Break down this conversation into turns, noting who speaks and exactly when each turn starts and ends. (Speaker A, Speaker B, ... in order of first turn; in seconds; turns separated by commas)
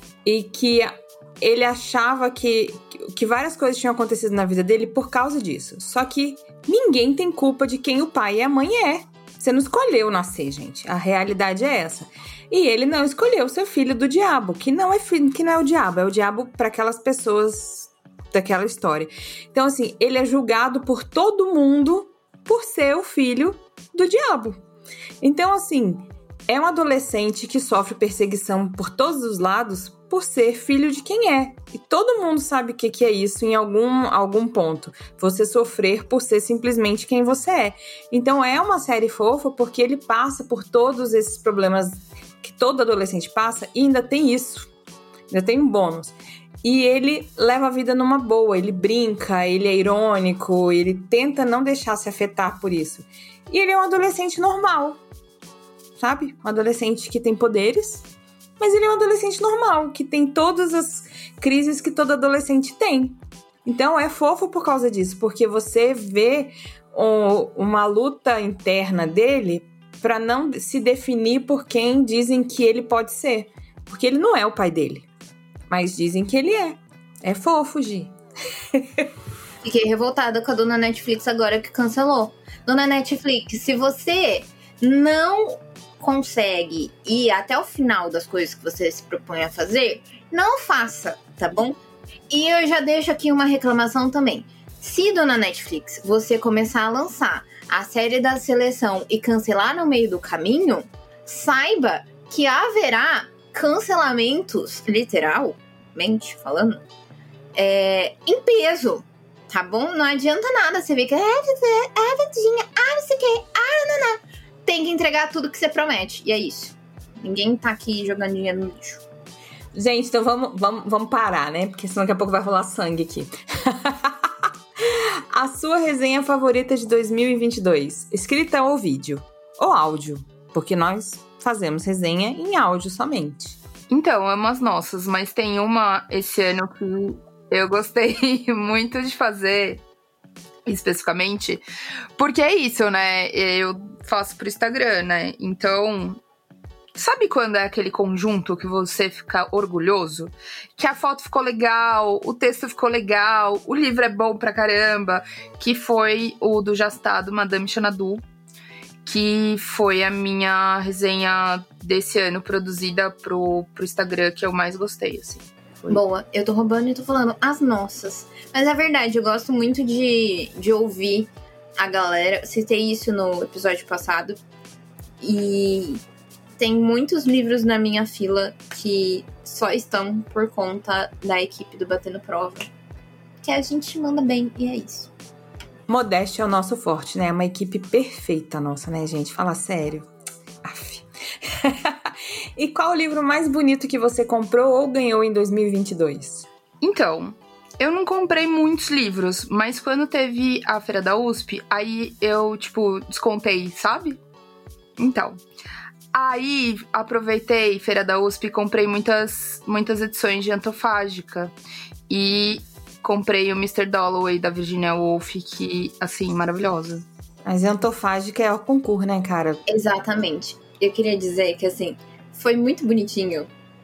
Speaker A: 0.2-24.6, Speaker A: 25.2-44.7, Speaker A: 45.3-55.0, Speaker A: 56.0-58.1, Speaker A: 58.6-75.1, Speaker A: 75.7-78.1, Speaker A: 78.7-79.1, Speaker B: 79.6-91.8, Speaker B: 92.3-106.8, Speaker B: 107.5-119.0, Speaker A: 119.7-133.6, Speaker C: 133.9-139.8, Speaker C: 140.7-141.6, Speaker C: 142.2-146.2, Speaker C: 147.0-158.2, Speaker C: 159.1-166.0, Speaker B: 165.9-174.4, Speaker B: 175.2-176.0, Speaker B: 176.6-182.7, Speaker B: 183.4-185.1, Speaker A: 185.9-190.1, Speaker A: 190.6-196.5, Speaker C: 196.8-204.2, Speaker C: 205.0-205.4, Speaker C: 206.1-211.5, Speaker C: 212.1-217.0, Speaker A: 217.4-219.6, Speaker B: 219.7-223.5